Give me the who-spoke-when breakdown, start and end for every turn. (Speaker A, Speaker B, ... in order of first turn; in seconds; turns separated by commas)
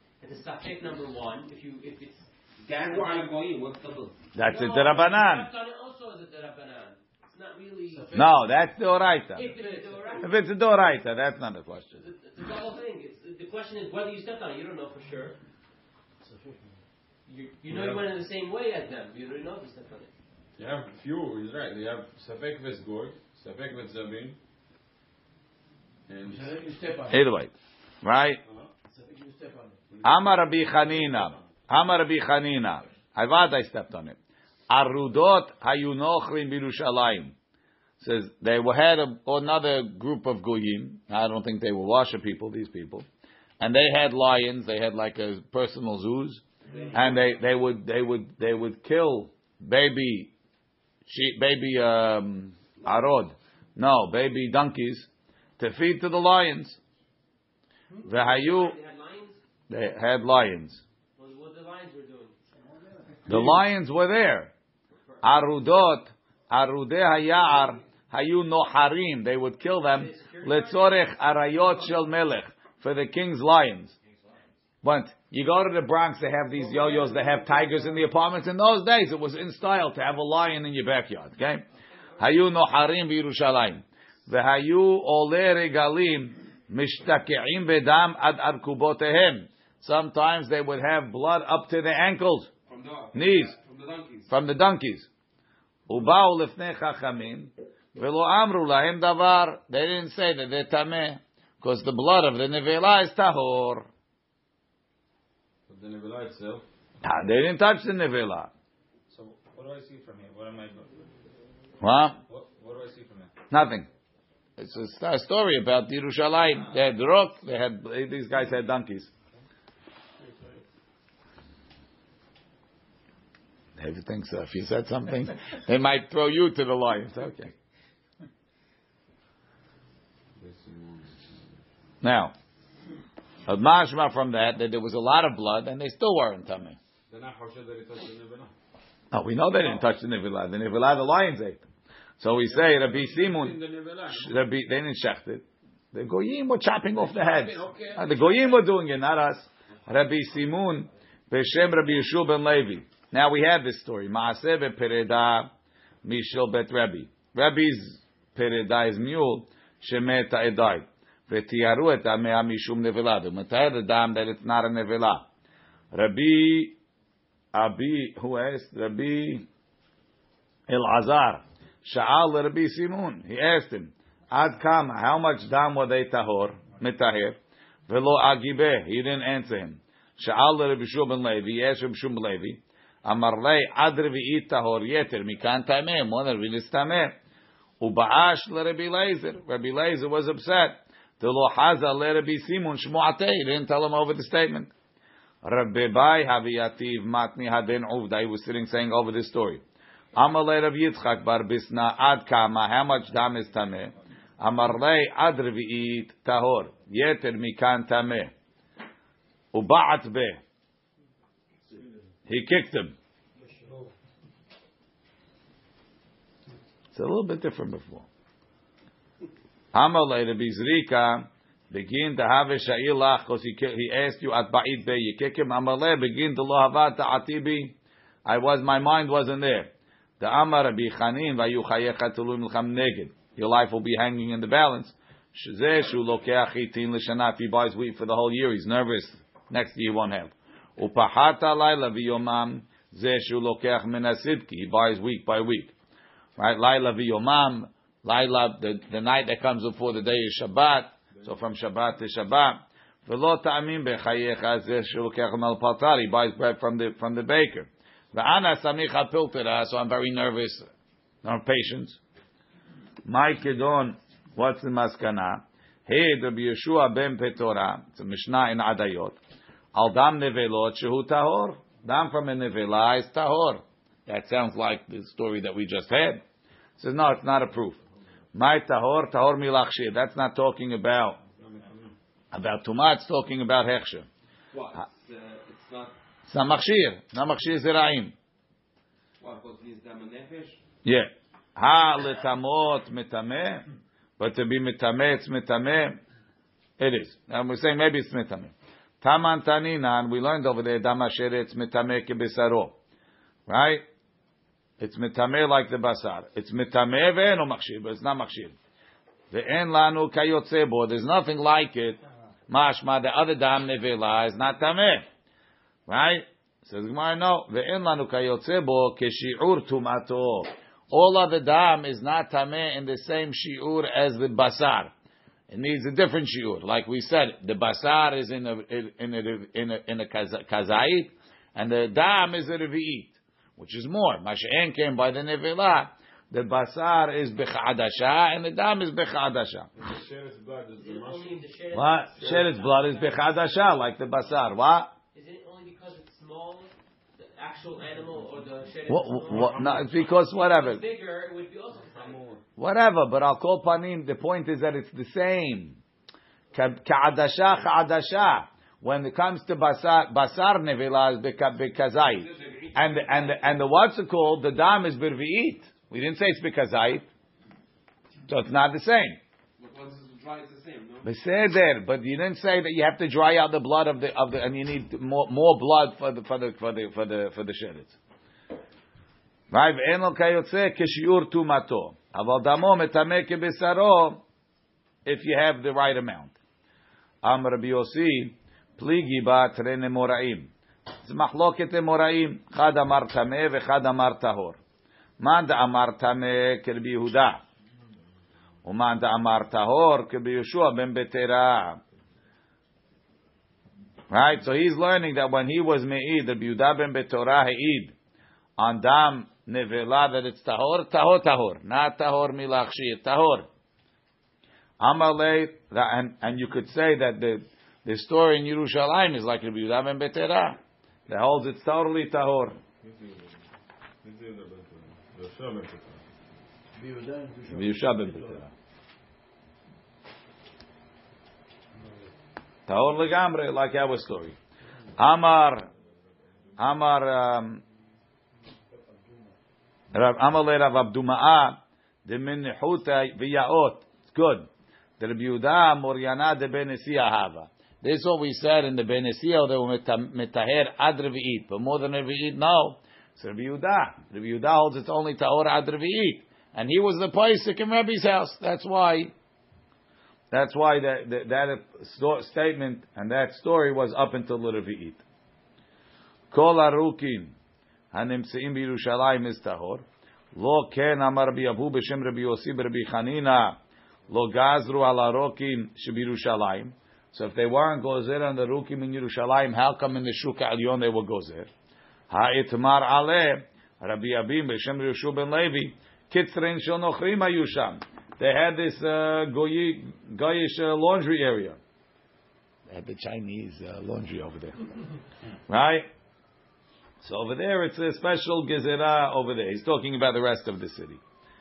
Speaker A: 0.2-8.2, Speaker B: 2.6-4.1, Speaker C: 4.3-5.5, Speaker D: 7.9-8.5, Speaker C: 8.1-9.5, Speaker A: 9.3-10.3, Speaker D: 9.4-10.2, Speaker C: 10.2-12.0, Speaker A: 11.9-15.4, Speaker D: 16.2-16.8, Speaker A: 17.2-20.1, Speaker E: 17.7-18.1, Speaker E: 20.6-24.4, Speaker E: 26.1-26.6, Speaker D: 26.3-27.2, Speaker C: 27.1-28.4, Speaker E: 28.4-28.7, Speaker D: 28.9-29.8, Speaker E: 29.9-31.4, Speaker C: 30.0-34.2, Speaker C: 34.7-37.4, Speaker C: 38.0-43.0, Speaker C: 43.6-50.3, Speaker C: 51.0-55.1, Speaker C: 55.6-56.8, Speaker A: 57.9-59.4, Speaker C: 58.0-58.8, Speaker C: 59.7-60.8, Speaker A: 61.2-62.4, Speaker C: 63.3-64.5, Speaker A: 65.1-65.6, Speaker C: 65.2-73.9, Speaker A: 69.8-71.9, Speaker C: 74.8-81.7, Speaker C: 82.2-92.5, Speaker B: 92.7-94.3, Speaker C: 93.1-93.6, Speaker C: 94.3-95.1, Speaker C: 95.9-103.9, Speaker E: 105.7-106.7, Speaker C: 107.0-108.5, Speaker F: 109.1-110.9, Speaker C: 111.8-112.2, Speaker F: 112.3-113.3, Speaker C: 113.5-113.9, Speaker C: 114.6-119.1, Speaker F: 120.2-120.6, Speaker C: 123.8-127.5, Speaker E: 130.4-131.2, Speaker C: 132.0-132.3, Speaker C: 133.5-136.8, Speaker E: 137.1-138.5, Speaker C: 139.1-141.6, Speaker E: 139.5-139.8, Speaker C: 142.2-155.5, Speaker E: 142.5-144.4, Speaker E: 146.9-148.6, Speaker C: 156.0-165.2, Speaker C: 165.9-166.8, Speaker C: 167.5-169.4, Speaker C: 170.7-187.2, Speaker C: 187.8-194.7, Speaker C: 195.4-199.6, Speaker C: 200.1-208.3, Speaker C: 209.5-210.4, Speaker C: 212.3-212.9, Speaker D: 213.4-213.8, Speaker C: 216.9-218.1, Speaker C: 219.7-245.7, Speaker C: 246.4-260.7, Speaker C: 261.2-262.0, Speaker C: 263.0-269.2, Speaker C: 269.7-276.2, Speaker C: 276.8-277.8, Speaker C: 278.3-281.2, Speaker E: 281.4-281.9, Speaker C: 282.3-284.1, Speaker B: 284.5-285.9, Speaker C: 286.3-288.1, Speaker B: 289.2-290.6, Speaker C: 290.8-293.6, Speaker C: 294.2-296.0, Speaker C: 296.8-302.7, Speaker C: 303.5-303.8, Speaker C: 304.8-308.6, Speaker C: 309.3-315.1, Speaker C: 315.9-324.9, Speaker C: 325.5-339.7, Speaker E: 339.8-341.4, Speaker A: 340.8-343.6, Speaker C: 341.7-344.9, Speaker E: 342.2-342.5, Speaker A: 345.1-352.2, Speaker C: 348.9-350.8, Speaker E: 349.2-349.9, Speaker E: 351.9-352.4, Speaker C: 352.6-355.8, Speaker C: 356.5-367.1, Speaker B: 362.0-363.6, Speaker C: 368.3-369.2, Speaker B: 369.6-371.1, Speaker C: 371.0-378.0, Speaker C: 379.5-384.2, Speaker C: 385.0-386.4, Speaker C: 387.2-390.5, Speaker C: 391.0-394.6, Speaker C: 395.2-397.4, Speaker C: 398.6-401.8, Speaker C: 404.1-407.9, Speaker C: 408.6-413.5, Speaker C: 414.8-422.6, Speaker E: 424.0-426.0, Speaker D: 426.8-428.4, Speaker C: 427.5-428.5, Speaker C: 432.7-434.4, Speaker C: 435.0-435.7, Speaker C: 436.6-437.6, Speaker D: 438.7-439.3, Speaker C: 439.9-459.1, Speaker C: 460.3-465.0, Speaker C: 466.3-467.4, Speaker C: 467.9-481.5, Speaker C: 482.1-491.6, Speaker C: 492.7-494.6, Speaker C: 495.5-495.9, Speaker C: 497.0-501.0